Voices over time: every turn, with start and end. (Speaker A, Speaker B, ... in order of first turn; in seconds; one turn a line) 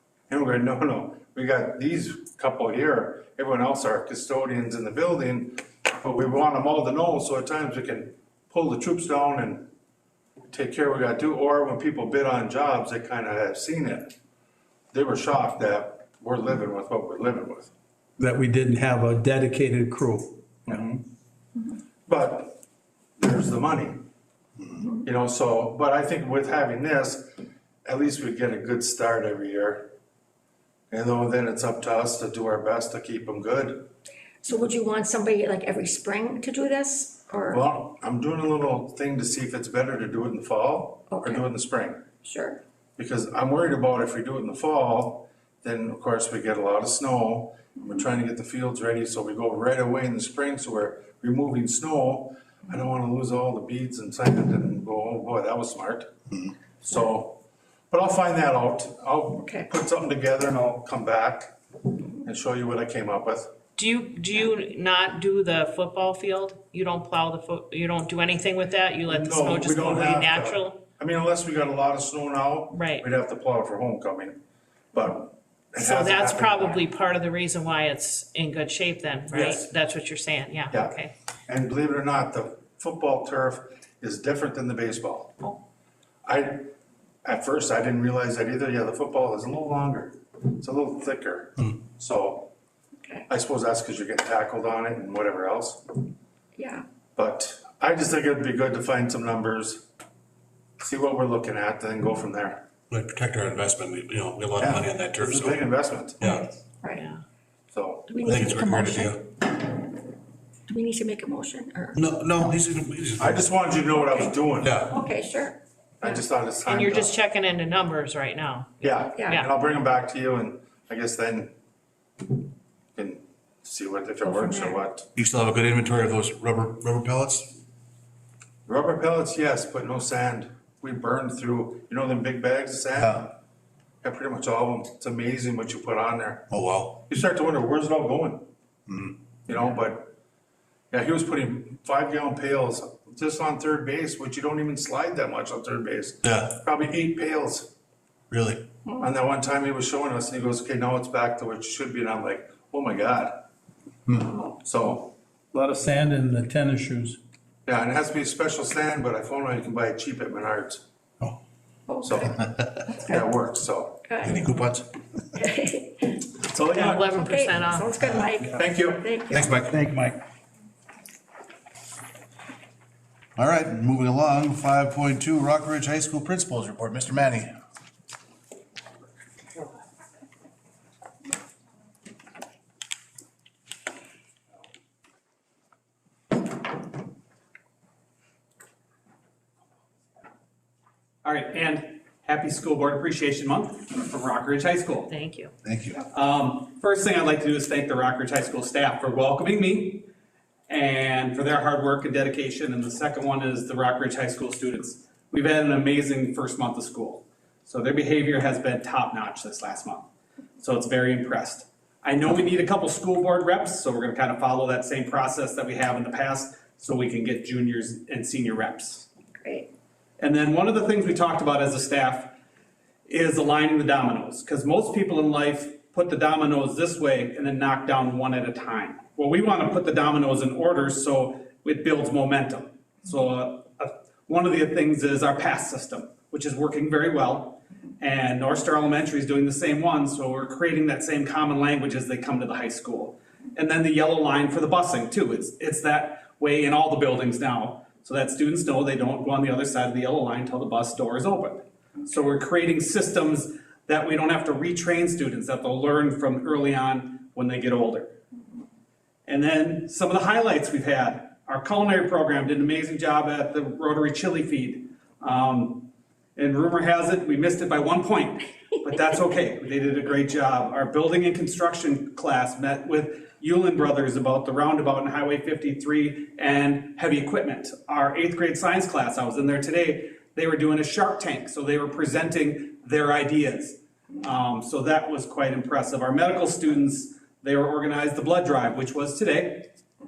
Speaker A: 0.3-9.7
Speaker A: 10.5-14.1
Speaker A: 14.9-17.7
Speaker B: 18.2-20.8
Speaker A: 20.6-21.0
Speaker A: 22.1-22.6
Speaker A: 23.2-24.0
Speaker A: 25.0-27.3
Speaker A: 27.8-29.9
Speaker A: 30.9-33.9
Speaker C: 34.4-37.6
Speaker A: 37.5-42.1
Speaker C: 41.1-41.4
Speaker C: 42.2-42.6
Speaker A: 43.0-56.1
Speaker A: 56.8-57.4
Speaker A: 57.9-61.5
Speaker C: 59.4-59.7
Speaker A: 62.2-63.5
Speaker D: 63.8-70.8
Speaker A: 69.1-74.4
Speaker D: 72.7-73.0
Speaker A: 74.9-76.8
Speaker D: 75.8-81.1
Speaker A: 79.3-79.7
Speaker A: 81.5-85.3
Speaker A: 86.2-86.7
Speaker A: 87.2-92.5
Speaker A: 93.3-95.8
Speaker C: 96.5-96.8
Speaker A: 97.2-99.8
Speaker A: 100.8-102.6
Speaker E: 102.9-105.6
Speaker A: 104.5-106.4
Speaker E: 106.2-106.5
Speaker D: 106.9-107.2
Speaker A: 107.7-108.1
Speaker C: 108.1-109.2
Speaker E: 108.2-109.3
Speaker C: 110.7-112.0
Speaker E: 111.9-113.4
Speaker A: 113.2-114.9
Speaker C: 113.9-114.3
Speaker E: 114.6-114.9
Speaker C: 114.9-116.2
Speaker A: 116.0-117.1
Speaker D: 116.6-119.5
Speaker A: 118.8-121.5
Speaker C: 119.1-119.4
Speaker A: 123.0-125.1
Speaker C: 124.2-124.8
Speaker E: 125.2-127.5
Speaker A: 128.7-133.3
Speaker E: 133.0-133.2
Speaker A: 134.0-138.4
Speaker E: 136.5-136.9
Speaker E: 138.9-139.1
Speaker A: 139.5-140.1
Speaker A: 140.9-147.7
Speaker E: 146.2-146.6
Speaker E: 148.3-148.6
Speaker A: 149.0-153.4
Speaker A: 154.1-155.1
Speaker B: 155.5-157.2
Speaker A: 157.7-160.8
Speaker C: 161.9-162.2
Speaker A: 162.0-162.4
Speaker C: 162.9-163.2
Speaker A: 163.0-164.0
Speaker C: 164.1-164.4
Speaker E: 164.2-164.9
Speaker C: 165.3-166.2
Speaker A: 166.5-167.1
Speaker D: 166.6-167.9
Speaker C: 167.2-169.6
Speaker A: 168.5-169.1
Speaker E: 169.3-169.9
Speaker B: 169.7-170.1
Speaker E: 173.4-177.5
Speaker F: 191.2-195.1
Speaker D: 195.1-195.5
Speaker E: 195.6-196.0
Speaker F: 196.1-200.1
Speaker F: 200.7-210.1
Speaker F: 210.6-219.1
Speaker C: 219.4-219.7
Speaker F: 220.2-222.3
Speaker F: 223.1-258.1
Speaker F: 259.2-289.7